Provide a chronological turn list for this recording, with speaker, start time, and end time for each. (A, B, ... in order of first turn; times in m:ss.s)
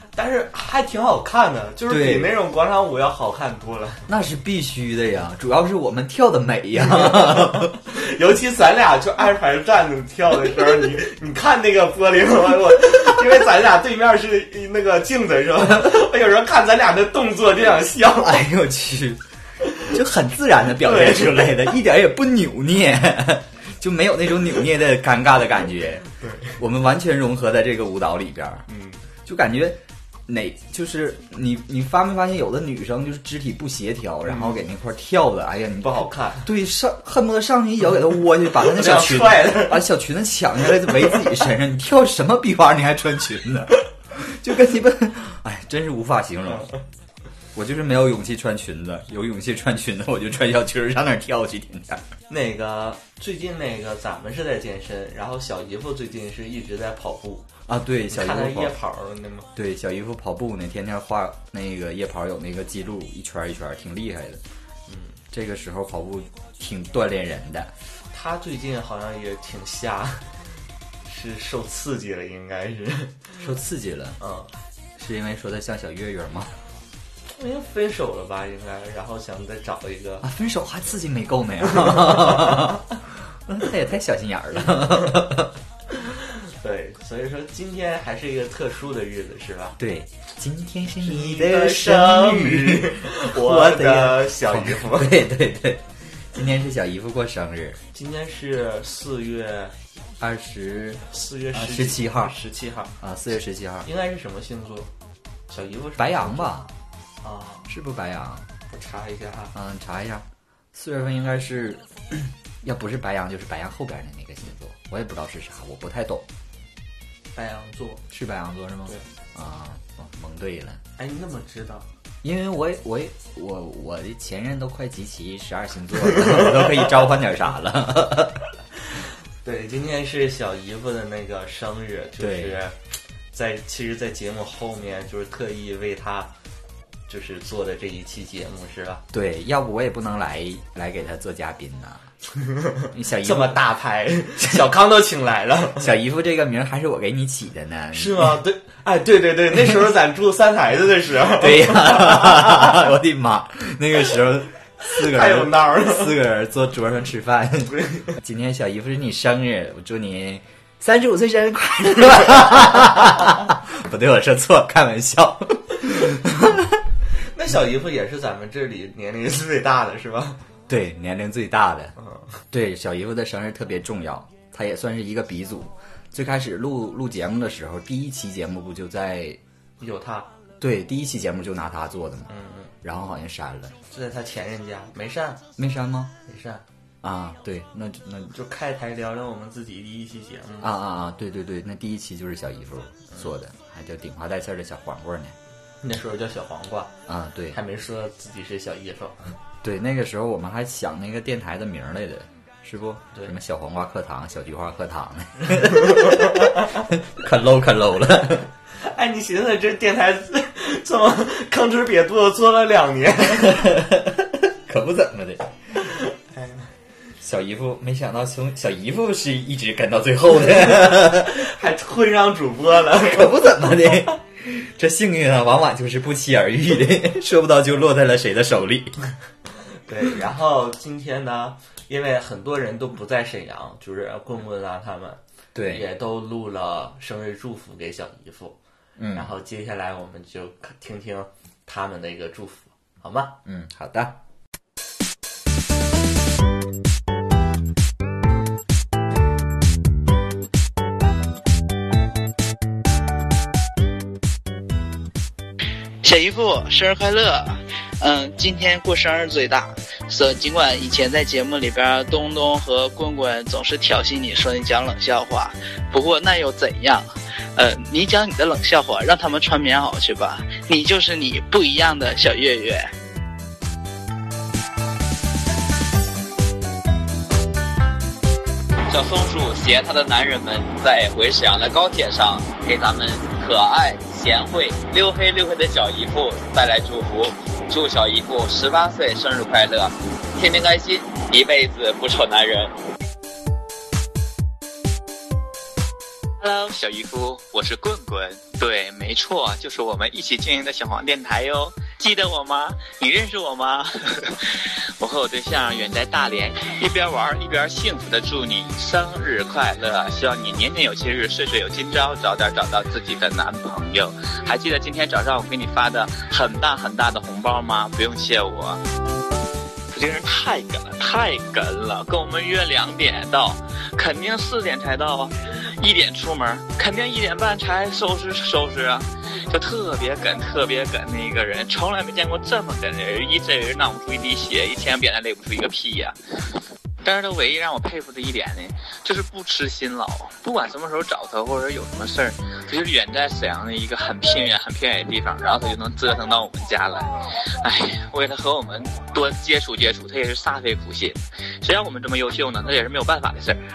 0:00.2-0:04.1 A
0:01.9-0:02.4 B
0:04.1-0:07.7 B
0:06.8-0:18.4 A
0:18.2-0:19.2 B
0:19.9-0:26.1 B
0:20.8-0:21.7 A
0:26.2-0:26.6 A
0:26.6-0:28.6 B
0:28.7-0:29.0 A
0:29.2-0:46.7 B
0:34.2-0:34.6 A
0:35.8-0:36.5 A
0:38.6-0:39.9 A
0:40.8-0:41.1 A
0:47.6-0:52.0 B
0:52.3-0:57.5 A
0:57.7-0:58.7 B
0:58.1-0:59.5 A
0:59.6-1:04.4 B
1:04.9-1:05.2 A
1:05.3-1:07.7 B
1:08.1-1:10.4 A
1:11.1-1:13.3 A
1:13.4-1:14.2 B
1:14.2-1:14.5 A
1:15.0-1:16.6 B
1:17.3-1:20.2 A
1:20.2-1:22.9 B
1:21.8-1:22.8 A
1:23.5-1:25.5 B
1:25.9-1:29.8 A
1:29.8-1:37.8 B
1:31.0-1:35.2 A
1:37.9-1:39.7 A
1:40.2-1:42.3 B
1:41.1-1:42.9 A
1:43.0-1:43.9 B
1:43.8-1:44.9 A
1:45.5-1:46.5 A
1:46.0-1:46.7 B
1:47.2-1:47.7 A
1:47.7-1:48.5 B
1:48.7-1:49.5 A
1:49.5-1:56.2 B
1:57.4-1:58.0 A
1:58.1-2:00.8 B
2:01.0-2:01.9 A
2:02.2-2:08.4 B
2:06.2-2:07.0 A
2:09.4-2:12.7 A
2:12.2-2:12.6 B
2:13.3-2:16.3 A
2:17.1-2:19.0 A
2:19.1-2:22.1 B
2:22.4-2:25.9 A
2:22.9-2:23.6 B
2:25.8-2:28.4 B
2:27.9-2:32.8 A
2:31.4-2:46.8 B
2:34.9-2:36.2 A
2:37.7-2:38.1 A
2:47.3-2:50.4 A
2:50.7-2:51.9 B
2:52.0-2:52.2 A
2:52.5-2:59.4 B
2:59.8-3:00.3 A
3:00.6-3:03.8 B
3:02.3-3:02.7 A
3:03.9-3:05.4 A
3:05.6-3:06.1 B
3:06.3-3:06.6 A
3:07.0-3:08.3 B
3:08.3-3:10.7 A
3:10.6-3:15.4 B
3:15.8-3:16.9 A
3:17.1-3:17.6 B
3:17.5-3:19.3 A
3:19.6-3:28.5 B
3:26.0-3:26.8 A
3:28.8-3:33.9 A
3:33.4-3:35.5 B
3:36.3-3:36.7 A
3:37.2-3:41.5 B
3:40.6-3:44.0 A
3:43.0-3:48.9 B
3:49.9-3:58.6 A
3:55.6-3:55.9 B
3:59.0-3:59.3 B
3:59.1-4:03.4 A
4:03.4-4:04.2 B
4:16.0-4:32.9 C
4:38.9-4:52.7 D
4:56.4-5:18.8 D
5:19.9-5:36.2 D
5:37.0-5:47.1 D
5:47.6-5:53.6 D